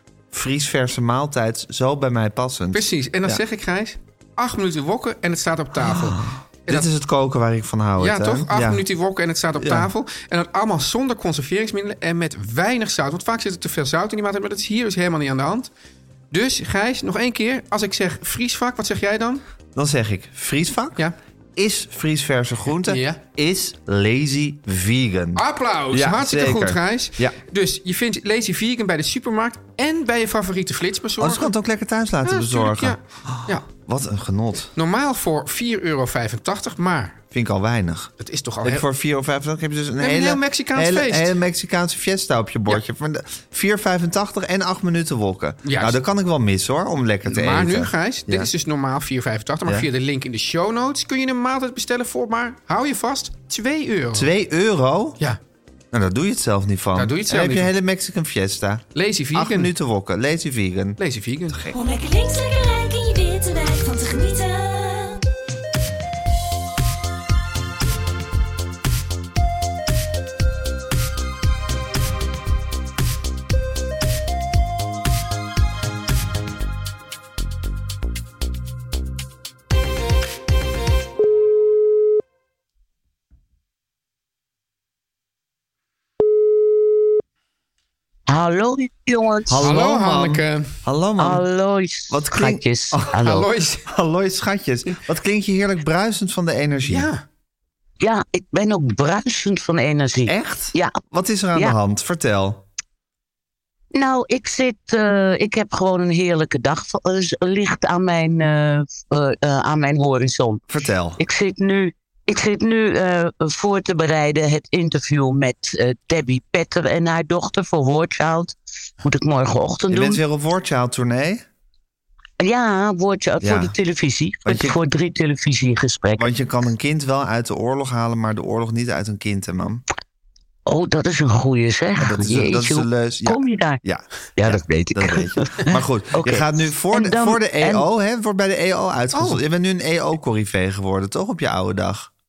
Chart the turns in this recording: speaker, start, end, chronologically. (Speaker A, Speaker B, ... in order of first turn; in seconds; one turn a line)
Speaker A: 0.3-3.4
Speaker B: 2.7-6.9
Speaker A: 5.8-8.8
Speaker B: 8.0-15.7
Speaker A: 9.6-9.9
Speaker B: 16.3-19.4
Speaker A: 19.8-21.0
Speaker A: 21.6-27.4
Speaker B: 22.8-23.2
Speaker B: 25.4-31.5
Speaker A: 31.2-34.7
Speaker B: 32.2-33.7
Speaker B: 34.8-37.2
Speaker A: 37.3-38.1
Speaker B: 38.2-38.9
Speaker A: 38.6-48.5
Speaker B: 40.0-41.3
Speaker B: 45.6-46.0
Speaker B: 47.3-54.3
Speaker A: 54.1-55.2
Speaker A: 55.9-61.0
Speaker B: 57.0-57.7
Speaker B: 59.0-59.7
Speaker B: 61.0-61.6
Speaker C: 61.7-65.2
Speaker D: 88.3-89.6
Speaker A: 89.5-91.4
Speaker B: 89.6-90.7
Speaker D: 91.2-93.5
Speaker A: 92.1-93.2
Speaker B: 93.2-93.9
Speaker A: 93.9-97.1
Speaker B: 96.9-97.2
Speaker D: 98.0-101.0
Speaker A: 100.3-102.6
Speaker D: 103.9-110.6
Speaker A: 110.7-111.2
Speaker D: 111.2-120.2
Speaker A: 119.9-121.4
Speaker D: 122.4-126.3
Speaker A: 123.4-123.8
Speaker A: 124.5-124.8
Speaker A: 126.2-129.8
Speaker D: 130.7-133.8
Speaker A: 132.0-142.1
Speaker D: 134.4-137.8
Speaker B: 139.1-139.4